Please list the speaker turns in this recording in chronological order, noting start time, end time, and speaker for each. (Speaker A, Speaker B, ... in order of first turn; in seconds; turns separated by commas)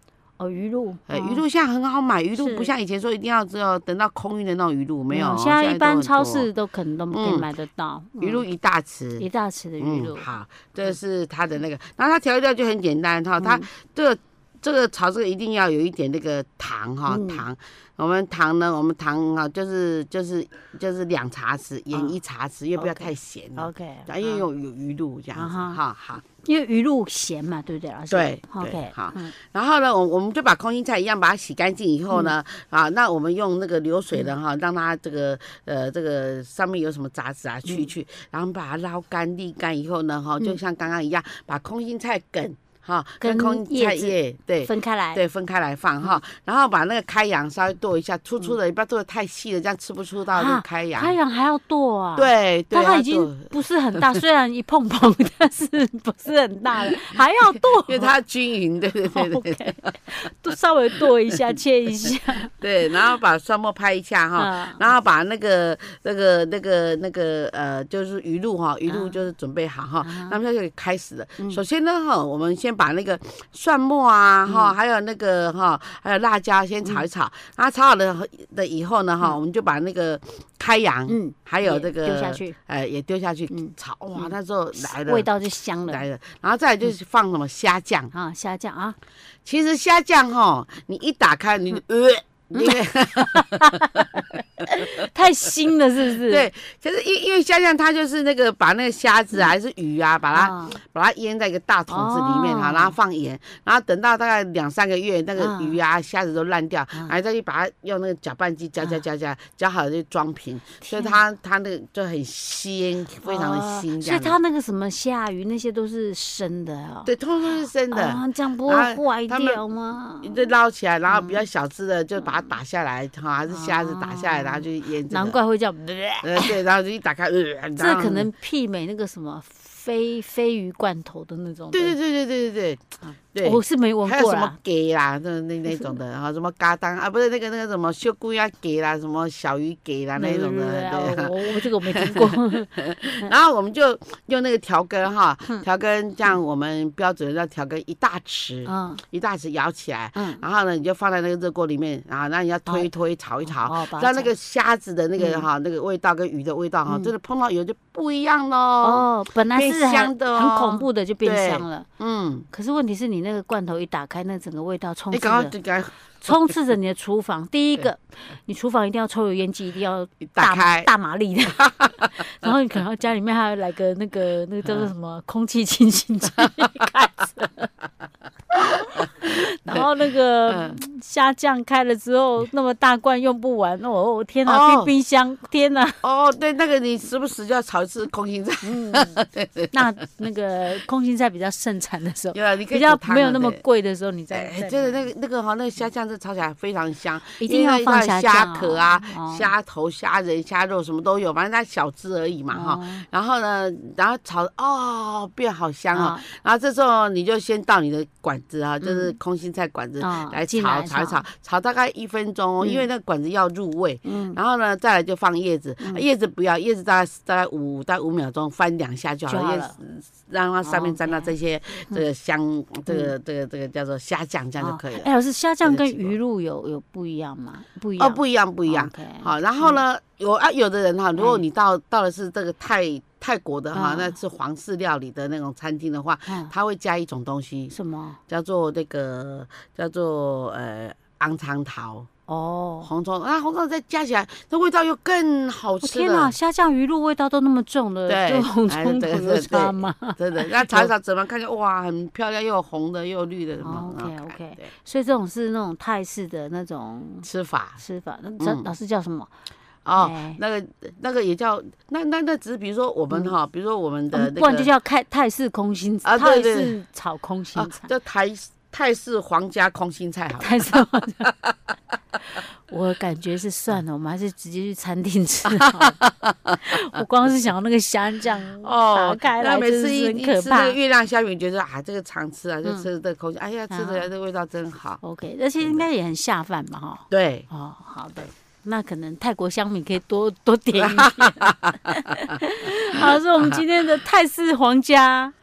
Speaker A: 0.4-1.4, Speaker B: 1.1-6.5, Speaker A: 2.4-2.7, Speaker A: 5.1-8.4, Speaker B: 7.1-7.5, Speaker B: 8.2-9.3, Speaker A: 9.2-10.3, Speaker B: 9.8-26.2, Speaker A: 13.4-13.7, Speaker A: 17.1-17.4, Speaker A: 22.8-24.4, Speaker A: 25.4-29.3, Speaker B: 28.1-51.1, Speaker A: 43.2-45.2, Speaker A: 50.3-58.1, Speaker B: 52.1-54.2, Speaker B: 57.5-60.0, Speaker A: 59.1-62.5, Speaker B: 62.1-85.3, Speaker A: 64.4-64.9, Speaker A: 68.9-69.2, Speaker A: 70.0-70.4, Speaker A: 74.5-74.8, Speaker A: 81.1-82.5, Speaker A: 83.5-86.0, Speaker B: 85.9-88.1, Speaker A: 88.1-89.0, Speaker B: 89.5-94.1, Speaker A: 92.5-96.5, Speaker B: 96.2-114.4, Speaker A: 100.3-100.8, Speaker A: 101.9-103.0, Speaker A: 105.4-105.8, Speaker A: 110.8-111.2, Speaker A: 113.2-117.1, Speaker B: 117.0-119.6, Speaker A: 117.9-120.5, Speaker B: 120.2-125.4, Speaker A: 121.1-121.4, Speaker A: 122.2-122.5, Speaker A: 123.5-126.6, Speaker B: 126.2-128.3, Speaker A: 127.8-132.0, Speaker B: 131.7-132.8, Speaker A: 133.0-134.6, Speaker B: 133.3-162.5, Speaker A: 135.7-135.9, Speaker A: 140.2-143.3, Speaker A: 148.7-149.0, Speaker A: 150.2-150.4, Speaker A: 153.4-154.3, Speaker A: 155.2-155.5, Speaker A: 158.8-161.9, Speaker A: 162.5-165.5, Speaker B: 165.1-166.6, Speaker A: 166.2-177.7, Speaker B: 170.3-170.9, Speaker B: 171.5-172.2, Speaker A: 178.5-186.0, Speaker B: 180.5-180.8, Speaker B: 184.5-184.9, Speaker B: 186.0-189.9, Speaker A: 188.6-189.2, Speaker A: 189.7-195.0, Speaker B: 192.3-193.6, Speaker B: 194.3-225.1, Speaker A: 197.4-199.5, Speaker A: 202.5-203.0, Speaker A: 205.9-206.2, Speaker A: 208.8-209.1, Speaker A: 210.0-211.2, Speaker A: 214.0-214.4, Speaker A: 219.3-219.8, Speaker A: 220.6-221.3, Speaker A: 224.6-229.8, Speaker B: 225.6-226.2, Speaker B: 228.0-237.8, Speaker A: 231.2-231.4, Speaker A: 233.7-234.2, Speaker A: 236.3-236.5, Speaker A: 237.7-238.2, Speaker B: 238.3-242.1, Speaker A: 242.3-242.9, Speaker B: 242.8-246.3, Speaker A: 245.8-250.9, Speaker B: 248.1-254.7, Speaker A: 253.6-257.3, Speaker B: 257.2-257.8, Speaker A: 257.8-259.3, Speaker B: 258.4-258.7, Speaker B: 259.8-264.7, Speaker A: 260.0-260.4, Speaker A: 264.1-267.9, Speaker B: 266.0-266.8, Speaker B: 267.5-271.5, Speaker A: 270.4-271.3, Speaker A: 272.7-276.0, Speaker B: 275.5-276.6, Speaker A: 276.6-280.8, Speaker B: 278.6-285.0, Speaker A: 283.7-284.1, Speaker A: 285.0-295.3, Speaker B: 287.1-287.5, Speaker B: 290.8-291.9